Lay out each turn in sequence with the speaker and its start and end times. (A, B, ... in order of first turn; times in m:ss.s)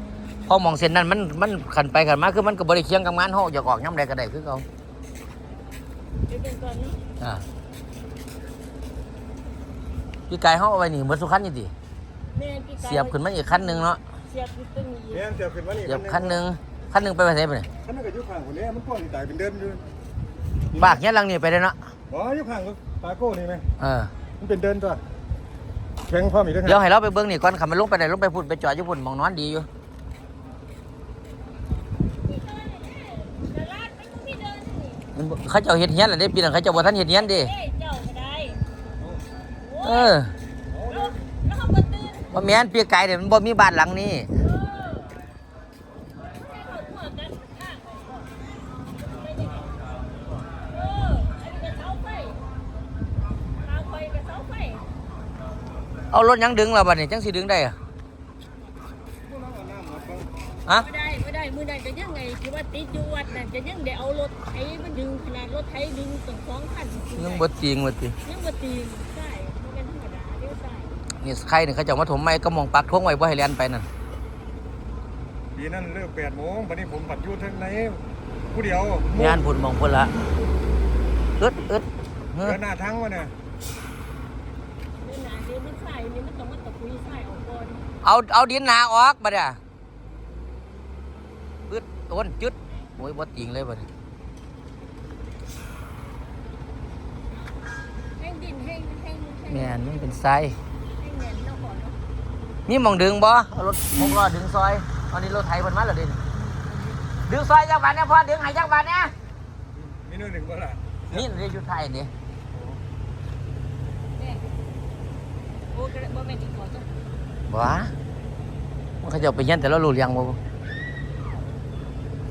0:00.5-0:04.7 A
0:06.3-0:07.0 B
0:10.3-0:11.7 A
0:12.3-0:15.3 B
0:12.8-0:14.0 A
0:15.1-0:16.4 C
0:15.9-0:17.7 A
0:17.8-0:19.8 C
0:20.8-0:21.8 A
0:22.1-0:23.6 C
0:23.8-0:24.1 A
0:24.4-0:25.0 C
0:26.1-0:26.8 C
0:26.6-0:29.7 A
0:32.1-0:35.1 B
0:35.2-0:37.5 A
0:36.8-0:38.6 B
0:39.6-0:40.2 B
0:39.8-0:40.3 A
0:40.7-0:41.0 C
0:40.9-0:42.4 B
0:42.3-0:44.3 A
0:44.4-0:45.1 B
0:46.4-0:48.3 B
0:48.9-0:49.9 B
0:50.6-0:52.4 B
0:53.6-0:54.9 B
0:56.1-0:57.8 A
0:59.2-1:00.3 C
1:00.7-1:07.5 B
1:07.2-1:08.2 A
1:08.2-1:11.0 B
1:11.2-1:13.9 A
1:15.6-1:19.4 C
1:19.1-1:20.1 A
1:21.4-1:22.6 A
1:22.4-1:23.3 C
1:25.0-1:27.9 B
1:28.0-1:29.6 A
1:31.7-1:33.9 A
1:38.2-1:40.2 B
1:39.5-1:40.6 A
1:40.9-1:42.0 B
1:42.7-1:46.2 A
1:46.5-1:47.0 B
1:47.2-1:49.1 A
1:49.7-1:51.2 C
1:51.1-1:52.1 A
1:54.2-1:54.5 B
1:55.7-1:56.9 B
1:57.5-1:57.9 A
1:59.0-2:00.4 A